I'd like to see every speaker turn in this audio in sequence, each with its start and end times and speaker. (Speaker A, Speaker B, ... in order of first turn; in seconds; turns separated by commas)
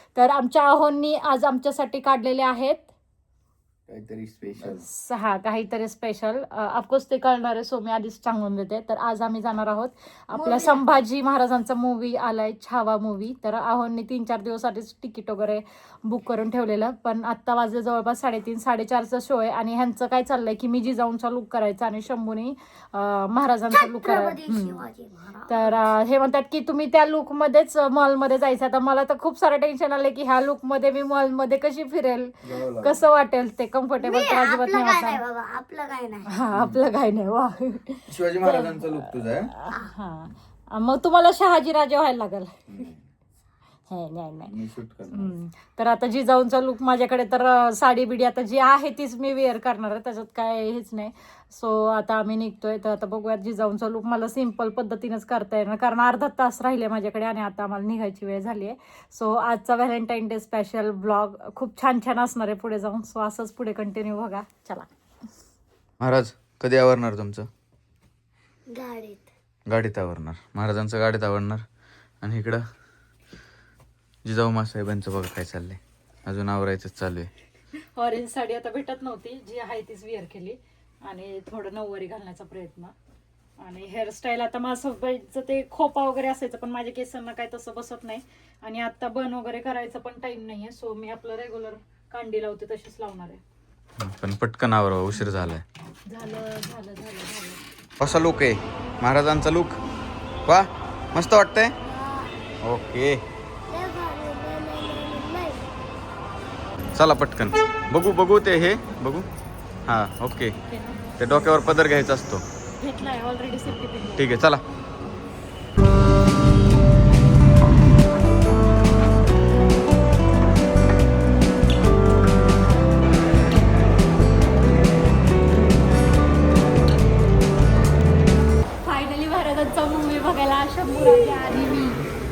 Speaker A: 0.1-2.9, Speaker B: 3.9-4.8, Speaker A: 4.6-24.8, Speaker C: 10.3-10.8, Speaker C: 23.7-25.9, Speaker A: 25.5-35.2, Speaker B: 32.4-33.0, Speaker C: 34.0-36.3, Speaker A: 36.3-42.6, Speaker B: 36.5-36.9, Speaker B: 38.1-39.5, Speaker B: 42.7-43.1, Speaker A: 43.9-44.5, Speaker B: 44.5-45.4, Speaker A: 45.1-64.9, Speaker B: 66.0-67.5, Speaker C: 68.7-69.3, Speaker B: 69.7-71.6, Speaker B: 72.2-72.6, Speaker B: 74.2-77.3, Speaker A: 77.9-82.9, Speaker A: 83.6-93.4, Speaker B: 94.0-95.6, Speaker A: 96.1-97.6, Speaker B: 98.0-99.8, Speaker B: 100.5-101.7, Speaker C: 101.8-102.4, Speaker B: 102.6-103.2, Speaker C: 103.7-105.7, Speaker B: 106.9-109.3, Speaker B: 109.8-110.5, Speaker A: 110.6-111.1, Speaker B: 111.2-112.4, Speaker A: 112.8-114.3, Speaker B: 114.2-114.6, Speaker A: 128.8-132.0